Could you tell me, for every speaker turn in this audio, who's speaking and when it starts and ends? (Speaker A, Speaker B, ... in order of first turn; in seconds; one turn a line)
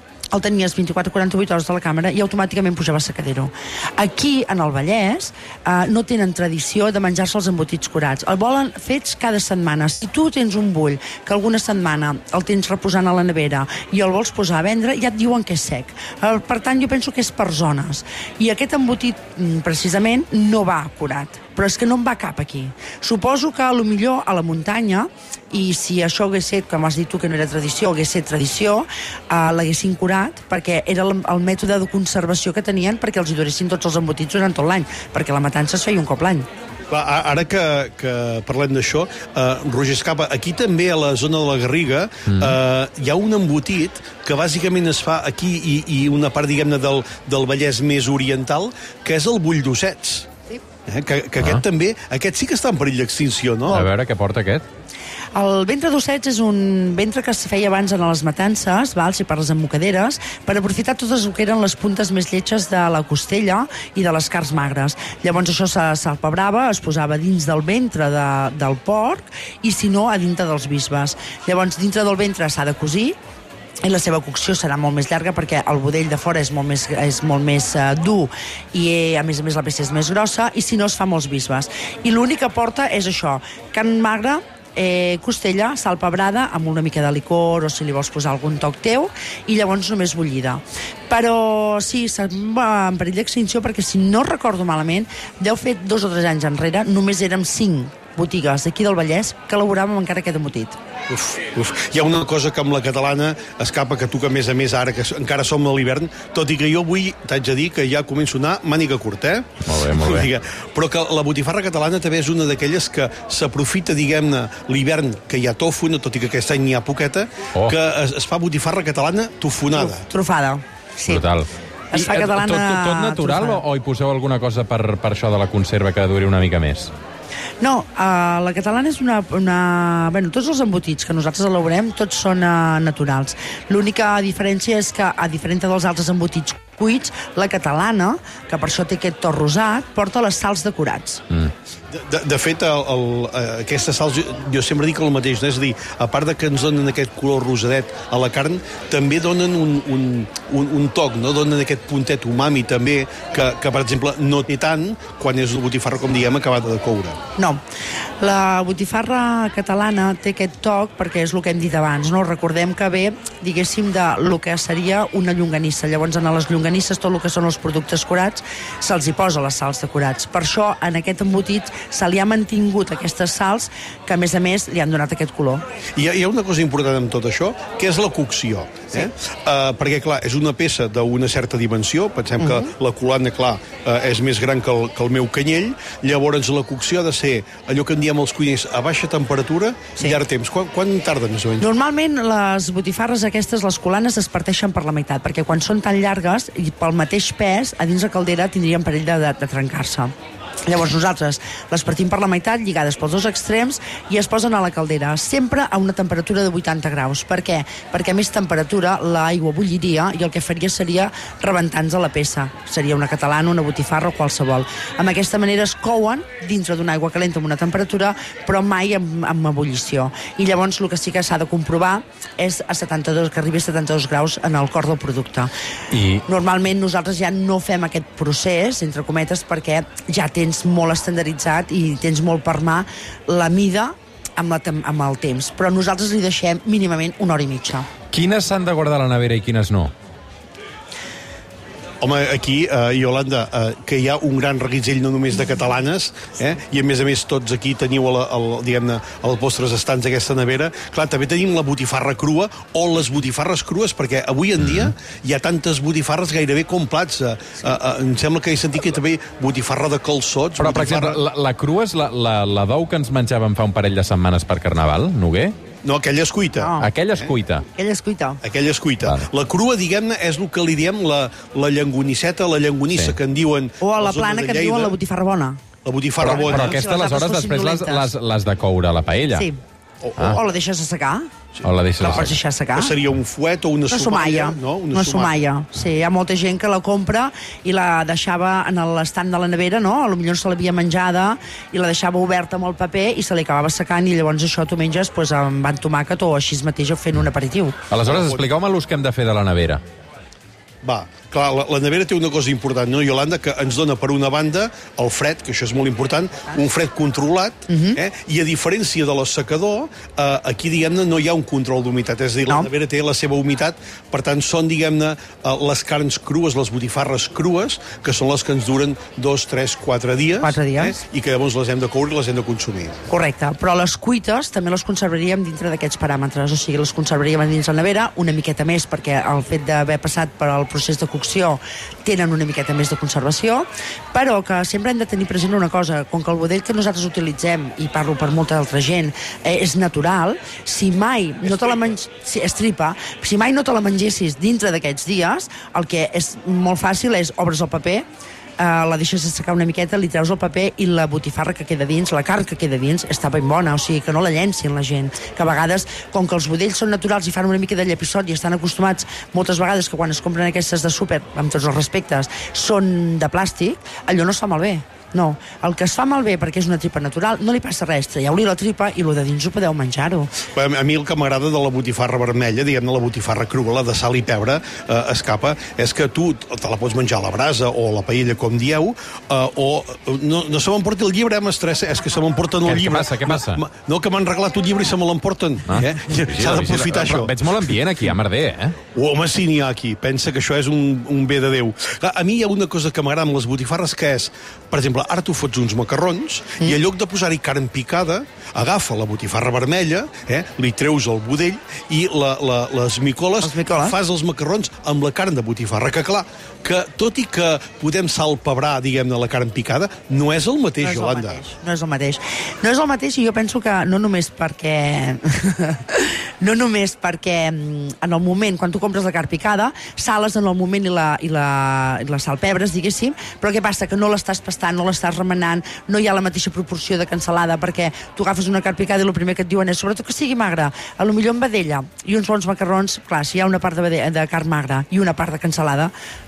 Speaker A: 0.3-36.5
Speaker B: 36.9-50.3
Speaker B: 50.9-53.9
Speaker C: 53.7-54.6
Speaker A: 55.3-73.2
Speaker A: 73.8-100.8
Speaker B: 101.1-120.0
Speaker C: 109.6-110.3
Speaker A: 119.8-121.2
Speaker C: 121.1-126.9
Speaker A: 121.9-123.6
Speaker A: 127.6-141.2
Speaker B: 141.9-157.2
Speaker A: 158.2-175.6
Speaker B: 175.9-191.7
Speaker A: 182.4-182.7
Speaker A: 191.6-200.1
Speaker A: 200.7-225.5
Speaker C: 225.9-226.2
Speaker A: 226.2-237.9
Speaker C: 238.1-239.9
Speaker B: 242.0-261.2
Speaker C: 254.6-254.9
Speaker C: 260.6-265.5
Speaker B: 265.8-266.7
Speaker A: 266.5-266.9
Speaker C: 266.8-267.6
Speaker A: 267.7-268.4
Speaker B: 268.4-275.0
Speaker A: 273.8-275.6
Speaker B: 275.8-276.8
Speaker C: 276.2-279.5
Speaker A: 276.2-278.1
Speaker A: 279.3-279.6
Speaker B: 280.0-280.3
Speaker A: 280.2-281.3
Speaker B: 281.6-282.1
Speaker C: 281.6-282.4
Speaker A: 282.0-282.9
Speaker B: 282.7-285.4
Speaker A: 283.9-297.8
Speaker C: 297.9-299.8
Speaker B: 298.0-298.4
Speaker B: 300.8-323.0
Speaker A: 307.7-308.0
Speaker A: 320.4-321.0
Speaker A: 323.1-348.0
Speaker B: 341.4-341.9
Speaker A: 348.6-370.3
Speaker B: 370.5-387.3
Speaker C: 382.6-383.6
Speaker C: 385.7-388.8
Speaker B: 388.9-411.4
Speaker A: 403.4-403.9
Speaker A: 410.8-435.9